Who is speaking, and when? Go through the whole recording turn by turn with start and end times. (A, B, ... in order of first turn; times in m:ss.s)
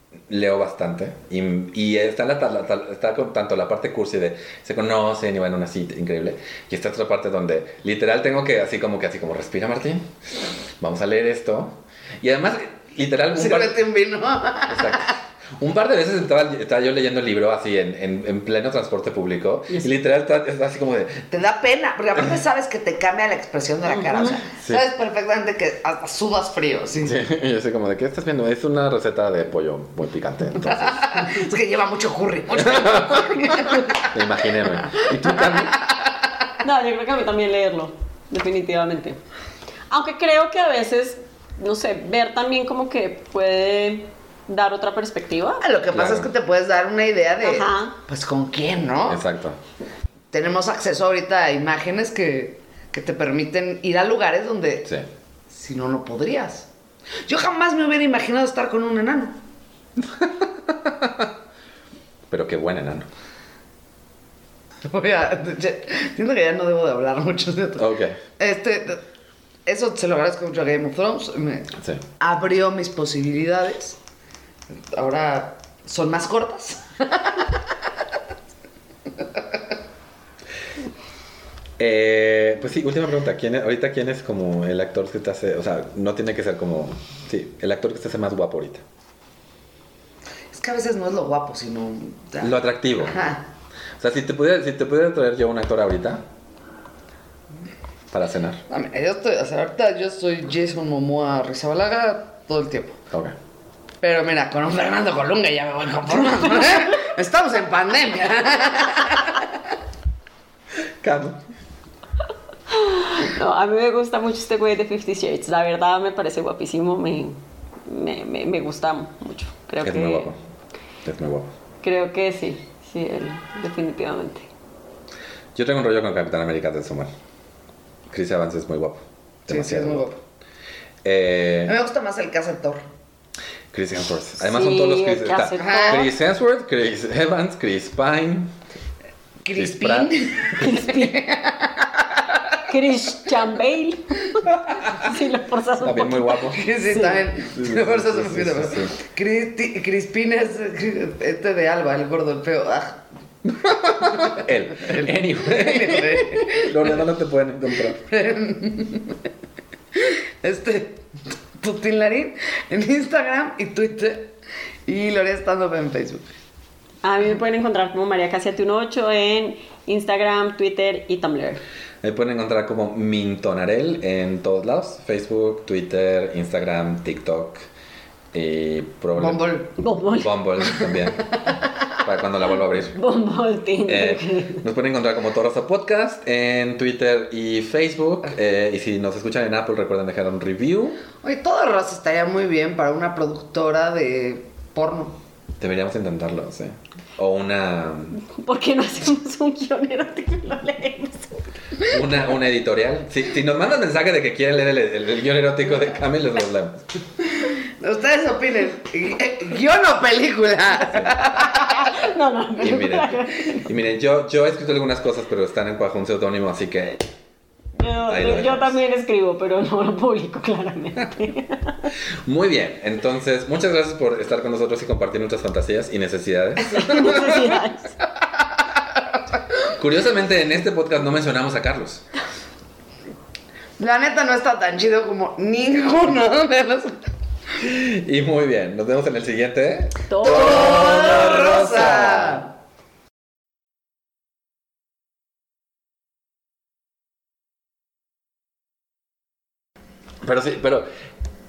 0:00.3-0:13.8 A
0:13.3-0:15.1 B
0:14.7-0:21.3 A
0:21.3-0:27.2 B
0:27.0-0:31.2 A
0:30.6-0:34.1 B
0:32.6-0:35.8 A
0:33.4-0:33.8 C
0:35.0-0:36.3 B
0:36.6-0:39.2 C
0:39.9-0:45.6 C
0:45.6-0:49.2 B
0:45.9-0:46.3 A
0:47.4-0:48.0 C
0:49.1-0:49.6 A
0:50.3-0:54.9 B
0:55.5-0:56.7 B
0:57.2-0:59.4 B
1:00.0-1:01.3 A
1:02.3-1:03.1 A
1:04.9-1:09.0 B
1:07.8-1:08.2 A
1:09.6-1:14.0 B
1:11.8-1:12.0 A
1:14.9-1:17.6 B
1:21.8-1:28.8 A
1:30.5-1:33.4 B
1:32.4-1:33.2 A
1:34.0-1:36.2 A
1:38.1-1:38.6 A
1:38.7-1:43.0 B
1:44.0-1:49.5 B
1:51.0-1:51.4 A
1:52.7-2:00.3 C
1:59.8-2:00.4 A
2:01.0-2:01.5 A
2:01.8-2:04.5 C
2:05.5-2:07.1 A
2:08.1-2:10.1 A
2:09.5-2:10.2 B
2:11.0-2:11.7 A
2:11.6-2:12.8 B
2:13.7-2:18.5 A
2:14.4-2:16.1 C
2:15.6-2:16.1 B
2:19.4-2:22.6 B
2:19.5-2:20.1 A
2:20.6-2:21.2 C
2:22.7-2:27.2 C
2:24.5-2:25.1 A
2:25.8-2:26.6 A
2:26.5-2:33.0 B
2:27.5-2:28.9 A
2:33.5-2:38.0 A
2:34.1-2:37.0 B
2:38.0-2:39.2 B
2:39.9-2:41.0 B
2:41.6-2:44.3 B
2:44.8-2:46.2 B
2:47.0-2:51.6 C
2:52.0-2:57.7 A
2:58.3-2:59.4 A
2:59.2-2:59.7 B
2:59.8-3:00.3 C
3:00.1-3:01.3 A
3:00.6-3:01.1 B
3:02.0-3:02.9 A
3:02.9-3:04.6 C
3:03.8-3:11.0 A
3:11.2-3:15.2 B
3:15.6-3:18.2 A
3:18.4-3:21.4 C
3:21.8-3:26.9 A
3:27.8-3:31.9 B
3:31.5-3:33.7 C
3:32.6-3:37.0 A
3:37.8-3:41.9 C
3:38.1-3:38.8 A
3:42.2-3:47.5 A
3:46.7-3:47.9 C
3:49.7-3:52.0 A
3:53.8-3:57.0 B
3:57.6-4:02.4 A
4:00.1-4:01.1 C
4:00.2-4:02.5 B
4:10.2-4:10.9 A